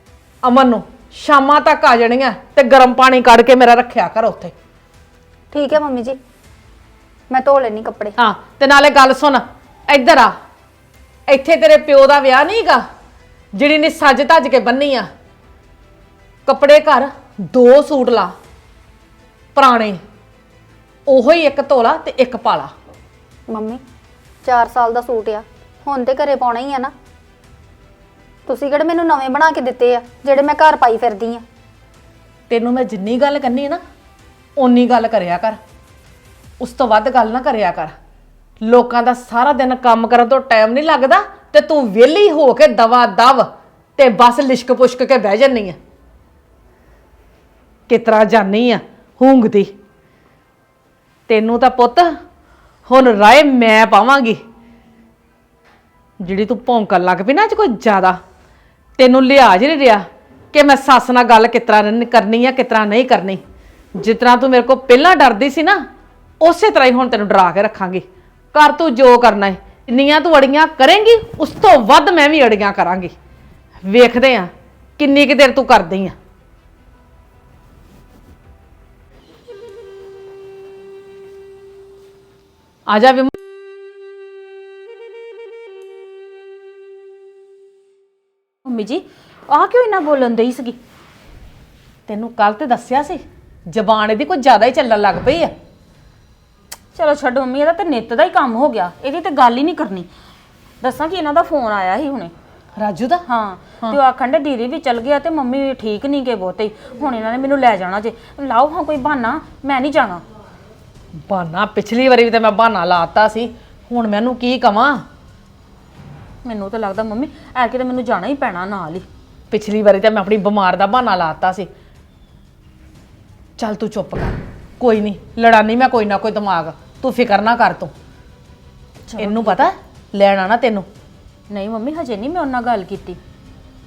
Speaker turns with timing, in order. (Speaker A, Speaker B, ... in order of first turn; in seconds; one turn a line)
Speaker A: 0.4-4.5
Speaker B: 5.5-6.2
Speaker B: 7.3-8.2
Speaker A: 8.2-10.3
Speaker A: 11.3-12.8
Speaker A: 13.5-15.1
Speaker A: 16.5-18.4
Speaker A: 19.6-20.0
Speaker A: 21.1-22.7
Speaker B: 23.5-23.8
Speaker B: 24.4-26.9
Speaker B: 28.5-31.4
Speaker A: 32.5-33.8
Speaker A: 34.6-35.6
Speaker A: 36.6-37.9
Speaker A: 38.6-45.8
Speaker A: 47.9-49.7
Speaker A: 51.3-52.1
Speaker A: 52.9-54.4
Speaker A: 56.2-58.2
Speaker A: 59.0-63.4
Speaker A: 64.0-65.8
Speaker A: 66.4-73.1
Speaker A: 73.8-76.2
Speaker A: 82.9-83.3
Speaker C: 88.7-90.8
Speaker A: 92.1-95.5
Speaker C: 97.0-100.1
Speaker C: 100.8-102.3
Speaker A: 102.8-103.2
Speaker C: 103.3-110.2
Speaker A: 111.2-115.0
Speaker C: 116.4-119.1
Speaker A: 119.5-121.7
Speaker A: 123.6-127.9
Speaker C: 129.1-129.7
Speaker A: 129.2-130.9
Speaker C: 131.5-133.2